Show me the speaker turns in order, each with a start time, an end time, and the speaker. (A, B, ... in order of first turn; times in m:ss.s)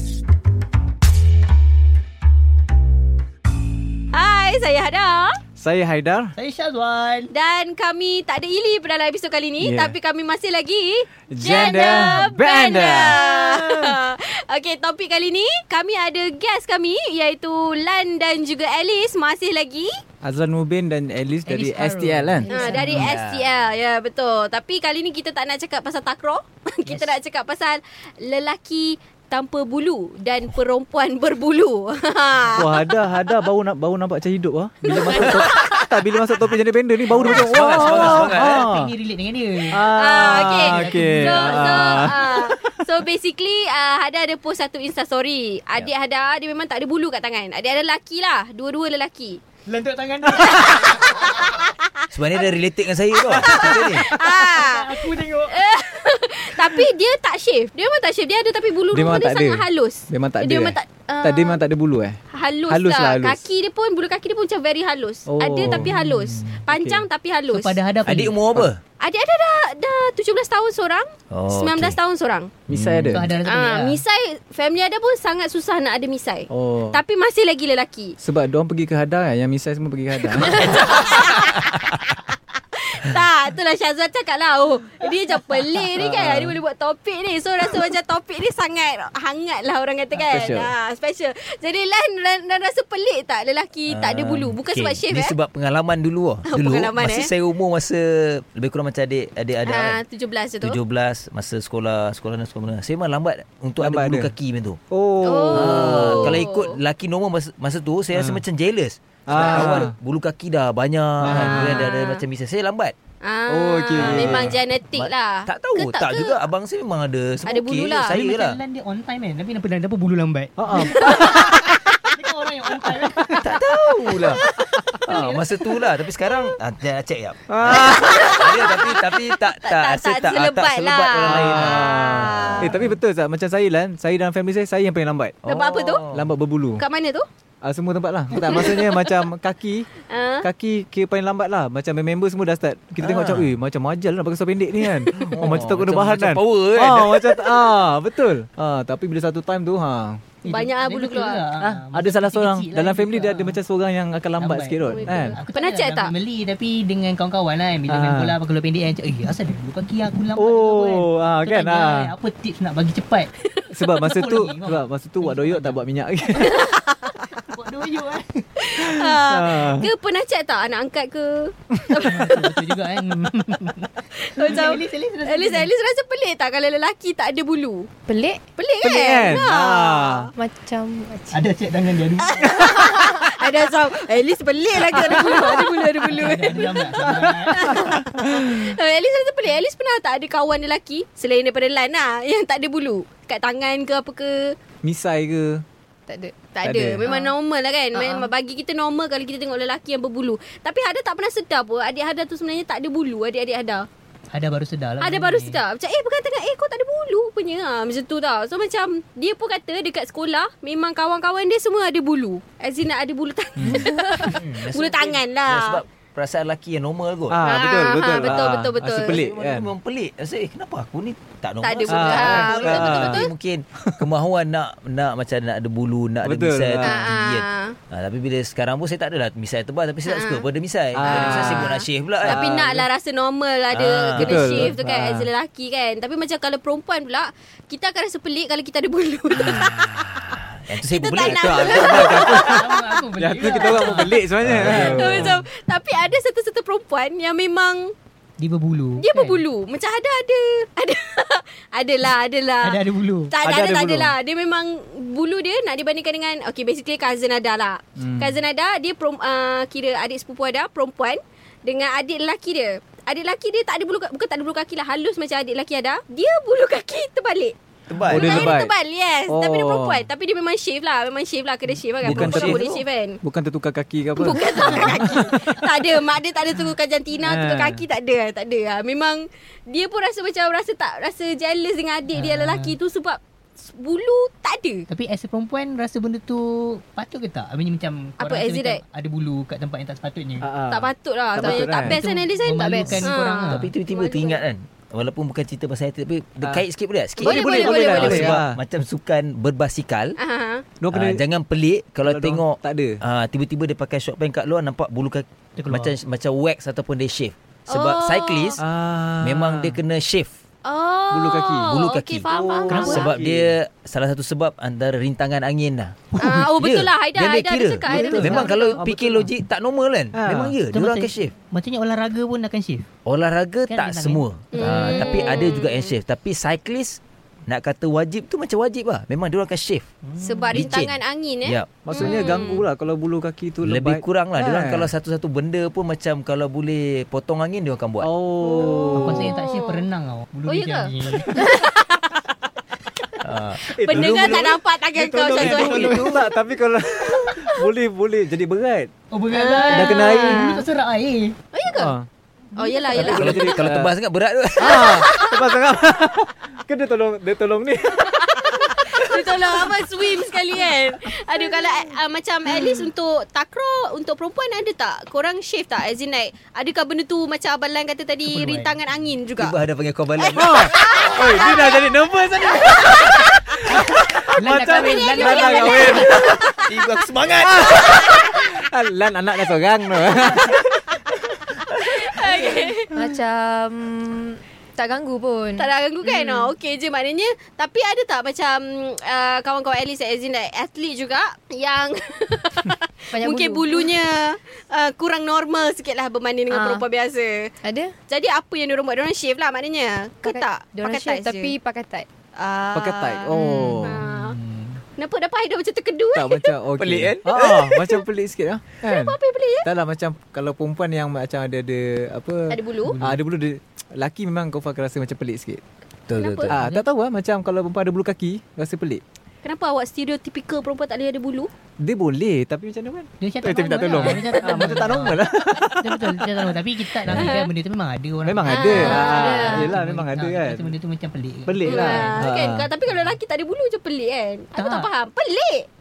0:04.1-0:05.4 A
0:05.6-0:06.3 B
0:06.4-0:07.3 C
0:07.3-0:20.0 A
0:09.6-0:10.0 B
0:11.3-0:13.2 B
0:13.3-0:13.8 C
0:20.2-0:22.5 B
0:21.5-0:23.1 C
0:22.5-0:23.0 D
0:22.5-0:33.1 A
0:22.9-0:23.5 E
0:26.9-0:27.2 C
0:32.6-0:38.9 B
0:34.9-0:36.1 A
0:35.1-0:35.5 E
0:37.1-0:38.7 E
0:37.3-0:39.8 C
0:39.7-0:42.9 B
0:39.8-0:49.4 A
0:40.6-0:42.5 C
0:49.7-0:51.5 C
0:50.6-0:52.0 A
0:52.1-0:54.1 E
0:53.4-1:01.6 A
0:54.2-0:55.6 C
0:58.9-1:02.2 B
1:02.3-1:07.8 A
1:02.7-1:03.4 B
1:05.3-1:07.0 B
1:07.5-1:08.4 C
1:08.0-1:08.8 E
1:09.0-1:12.5 A
1:11.3-1:12.0 E
1:12.7-1:13.3 B
1:12.7-1:13.3 E
1:13.1-1:14.0 C
1:13.4-1:18.2 A
1:16.5-1:17.0 B
1:18.2-1:21.0 B
1:20.5-1:22.2 A
1:22.7-1:35.4 A
1:25.9-1:26.6 B
1:30.3-1:30.7 B
1:33.9-1:40.0 E
1:36.5-1:37.3 A
1:39.7-1:40.8 A
1:40.6-1:44.8 E
1:43.8-1:44.3 B
1:44.9-1:46.5 B
1:45.2-1:46.8 A
1:45.5-1:52.9 E
1:48.1-1:48.4 B
1:49.3-1:49.9 B
1:51.2-1:51.8 B
1:51.7-1:52.2 A
1:53.2-1:56.4 A
1:53.5-1:54.6 B
1:55.0-1:58.6 E
1:57.5-1:58.2 A
1:58.2-2:00.5 C
2:00.6-2:01.8 B
2:01.0-2:01.2 A
2:01.0-2:01.4 C
2:02.1-2:03.5 C
2:03.4-2:04.4 E
2:04.9-2:05.3 B
2:05.1-2:05.4 C
2:05.1-2:13.0 E
2:06.2-2:06.5 A
2:07.5-2:08.4 B
2:08.2-2:12.7 A
2:11.2-2:15.4 B
2:15.4-2:16.3 E
2:15.5-2:16.1 A
2:16.1-2:16.8 B
2:16.8-2:17.2 A
2:17.6-2:19.9 B
2:18.3-2:18.9 A
2:20.1-2:20.5 A
2:20.4-2:30.2 B
2:23.0-2:23.5 E
2:24.8-2:25.1 A
2:25.3-2:27.4 E
2:30.4-2:33.6 C
2:30.5-2:31.5 A
2:31.6-2:35.4 B
2:34.4-2:43.3 C
2:34.9-2:36.1 A
2:37.9-2:38.4 B
2:40.4-2:42.1 B
2:43.4-2:44.2 A
2:43.7-2:46.7 B
2:44.1-2:45.8 C
2:46.4-2:47.4 A
2:47.4-2:48.4 C
2:48.6-2:52.8 A
2:48.8-2:49.9 B
2:52.1-2:55.7 C
2:54.1-2:57.9 A
2:58.1-2:58.4 D
2:58.6-3:00.3 A
2:58.8-3:00.3 B
3:00.4-3:01.4 D
3:01.3-3:02.7 C
3:02.2-3:14.6 A
3:06.0-3:08.0 C
3:14.8-3:15.6 B
3:16.1-3:16.4 D
3:16.5-3:23.9 A
3:16.6-3:17.1 B
3:17.1-3:17.3 D
3:17.9-3:18.3 D
3:24.3-3:25.6 C
3:25.0-3:35.8 A
3:33.6-3:34.2 B
3:34.3-3:37.4 E
3:37.3-3:39.7 B
3:37.4-3:39.2 A
3:39.0-3:52.5 E
3:41.6-3:43.3 A
3:41.9-3:43.2 B
3:46.2-3:47.1 B
3:46.8-3:47.8 A
3:50.0-3:50.5 A
3:51.0-3:52.9 B
3:51.1-3:59.8 A
3:53.7-3:54.6 E
3:54.2-3:55.3 B
3:59.3-4:02.1 E
4:00.8-4:03.0 A
4:01.2-4:05.5 B
4:01.7-4:04.8 C
4:03.5-4:04.1 A
4:04.4-4:05.2 E
4:04.8-4:07.9 A
4:08.4-4:09.4 C
4:09.0-4:27.6 A
4:12.6-4:13.4 C
4:13.4-4:14.1 B
4:18.0-4:18.4 B
4:27.9-4:28.5 E
4:27.9-4:28.7 B
4:28.2-4:33.2 A
4:29.3-4:30.1 B
4:32.0-4:35.3 B
4:32.0-4:32.7 E
4:34.2-4:44.9 A
4:37.2-4:37.8 B
4:42.2-4:42.8 C
4:44.9-4:50.5 C
4:48.2-4:48.8 A
4:50.4-4:52.0 B
4:50.7-4:54.4 A
4:52.0-4:53.7 C
4:52.6-4:53.1 D
4:53.5-5:00.2 E
4:57.2-4:58.3 A
4:57.2-4:58.6 B
4:57.8-4:58.4 D
5:00.2-5:00.6 A
5:00.8-5:01.2 B
5:00.9-5:08.6 E
5:02.0-5:03.0 B
5:05.6-5:06.0 C
5:07.7-5:08.6 A
5:08.6-5:09.8 B
5:09.2-5:10.3 E
5:10.6-5:13.1 A
5:11.1-5:11.7 B
5:11.7-5:16.0 E
5:12.3-5:13.6 B
5:12.7-5:13.1 C
5:16.1-5:16.6 C
5:16.2-5:18.8 A
5:16.6-5:21.3 E
5:17.8-5:18.6 C
5:18.0-5:19.3 B
5:20.1-5:20.6 B
5:20.7-5:22.9 C
5:23.1-5:29.9 E
5:23.7-5:25.4 C
5:24.5-5:26.0 A
5:24.6-5:25.0 B
5:30.1-5:30.6 C
5:30.2-5:32.6 A
5:30.5-5:32.3 E
5:31.8-5:34.9 B
5:33.6-5:38.1 E
5:38.0-5:39.4 B
5:38.6-5:41.5 C
5:39.2-5:39.8 A
5:40.4-5:42.2 A
5:43.2-5:46.2 E
5:43.7-5:48.9 B
5:43.8-5:46.2 A
5:45.5-5:46.0 C
5:49.1-5:51.4 C
5:49.3-5:50.7 A
5:49.7-5:50.5 B
5:51.5-5:51.9 A
5:51.8-5:52.1 B
5:52.6-5:53.7 A
5:52.6-5:53.5 C
5:53.0-5:55.2 E
5:53.0-5:53.9 B
5:54.6-5:59.8 B
5:54.7-5:55.4 A
5:58.0-6:09.6 A
6:08.3-6:08.8 C
6:09.4-6:10.5 E
6:10.2-6:13.2 A
6:10.4-6:16.4 B
6:14.3-6:16.3 C
6:14.7-6:16.7 A
6:16.3-6:18.1 E
6:17.4-6:20.7 B
6:21.8-6:23.0 A
6:22.2-6:22.5 B
6:22.9-6:25.7 D
6:25.6-6:37.6 A
6:33.1-6:34.0 D
6:36.5-6:36.9 D
6:37.6-6:38.0 D
6:38.1-6:41.6 A
6:40.2-6:42.1 D
6:42.4-6:44.4 A
6:42.7-6:44.0 B
6:43.4-6:43.7 D
6:44.0-6:44.8 C
6:45.0-6:46.6 A
6:46.1-6:55.6 B
6:46.8-6:48.0 E
6:48.8-6:49.7 A
6:52.5-6:53.0 A
6:52.8-6:53.2 C
6:56.1-6:56.6 E
6:56.1-6:56.6 A
6:56.5-6:59.0 B
6:59.4-7:01.5 A
7:01.8-7:07.3 B
7:03.2-7:05.2 C
7:04.0-7:04.6 A
7:05.8-7:12.3 C
7:07.1-7:07.5 A
7:08.2-7:10.7 B
7:08.5-7:09.7 A
7:11.5-7:12.7 B
7:11.6-7:15.7 A
7:12.9-7:13.2 C
7:14.6-7:14.9 C